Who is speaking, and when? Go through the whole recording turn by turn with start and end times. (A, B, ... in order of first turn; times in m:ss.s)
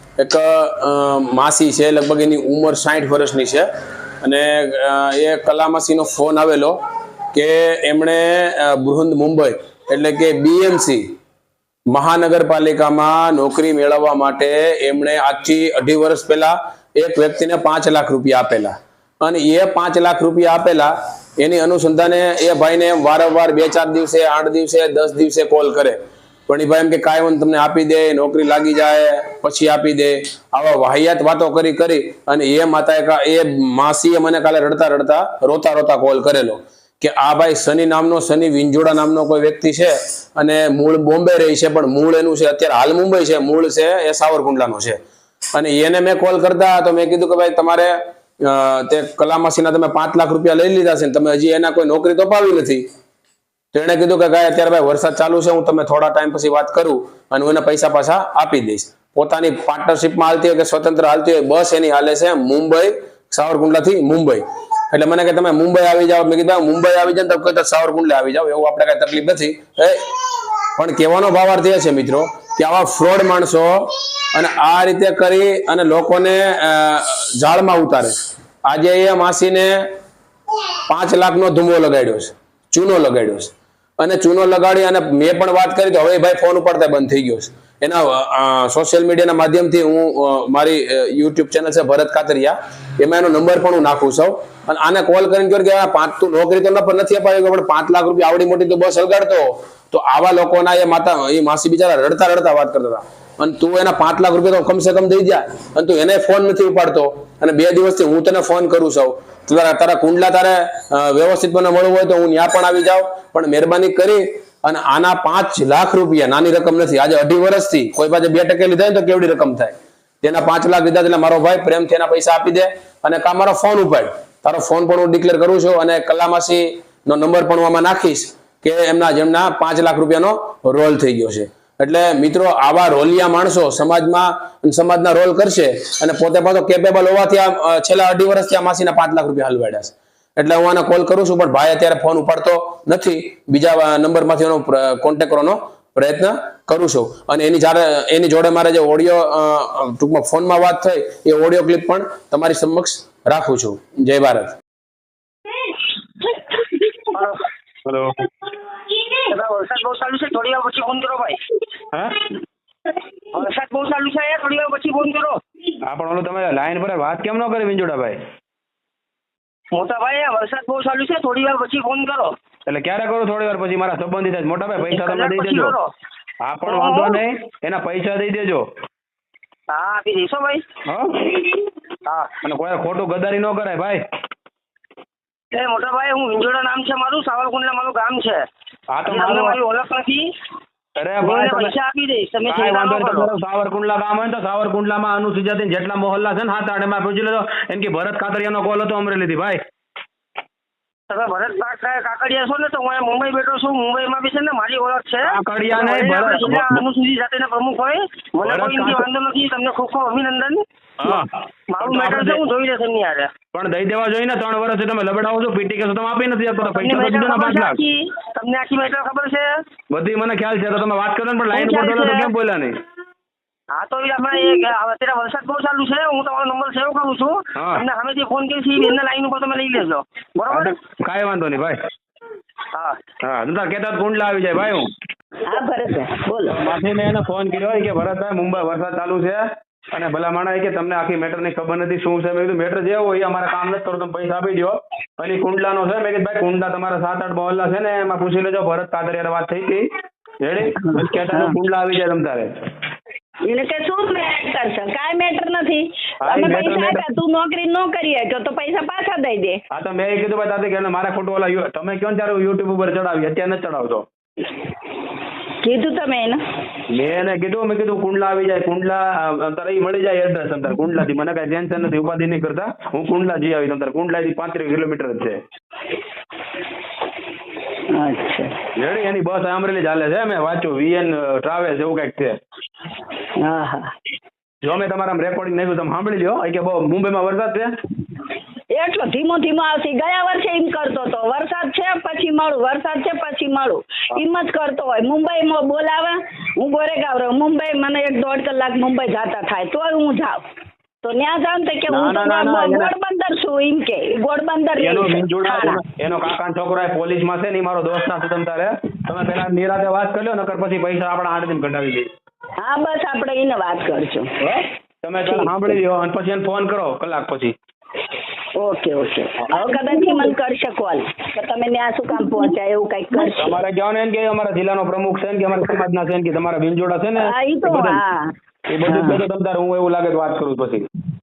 0:00.2-0:03.6 A
0:04.2-0:06.8 A
0:07.3-0:11.0 A
0:11.9-0:26.0 A
0:26.5-0:45.0 A
0:45.6-0:52.8 A
0:53.7-1:10.0 A
1:10.8-1:19.8 A
1:20.9-2:34.6 A
2:37.0-2:37.4 B
2:37.9-2:38.3 C
2:39.2-2:41.4 B
2:41.9-2:42.2 C
2:43.3-2:45.4 B
2:45.8-2:48.2 C
2:49.7-2:52.3 B
2:52.7-2:55.8 C
2:54.8-2:55.9 B
2:56.4-2:58.6 C
2:56.7-2:57.2 B
2:59.7-3:00.6 B
3:00.9-3:01.5 C
3:02.1-3:02.4 B
3:02.4-3:04.0 C
3:05.5-3:08.4 B
3:08.9-3:09.6 C
3:09.1-3:10.2 B
3:11.0-3:11.7 C
3:11.2-3:13.3 B
3:12.5-3:19.6 C
3:21.1-3:33.3 B
3:25.2-3:26.8 C
3:28.4-3:29.1 C
3:31.0-3:32.4 C
3:33.5-3:37.8 C
3:36.6-3:39.5 B
3:39.9-3:42.8 C
3:41.5-3:42.3 B
3:43.8-3:50.8 B
3:47.6-3:47.8 C
3:50.5-3:51.8 C
3:52.7-3:53.0 B
3:53.2-3:54.9 C
3:55.5-3:56.7 D
3:56.5-4:09.9 C
4:10.4-4:12.5 C
4:10.8-4:11.6 D
4:13.5-4:19.6 D
4:16.2-4:17.1 C
4:19.7-4:24.1 C
4:25.6-4:26.4 D
4:26.9-4:35.4 C
4:38.0-4:38.6 D
4:38.8-4:42.4 C
4:43.4-4:43.9 D
4:44.6-4:47.7 C
4:48.7-5:00.4 D
5:01.0-5:05.8 D
5:01.9-5:02.9 C
5:04.8-5:12.1 C
5:12.6-5:14.3 D
5:14.4-5:17.5 C
5:15.2-5:15.5 D
5:18.6-5:23.6 D
5:19.4-5:20.2 C
5:23.1-5:28.0 C
5:27.2-5:28.3 D
5:28.7-5:30.9 C
5:28.8-5:29.2 D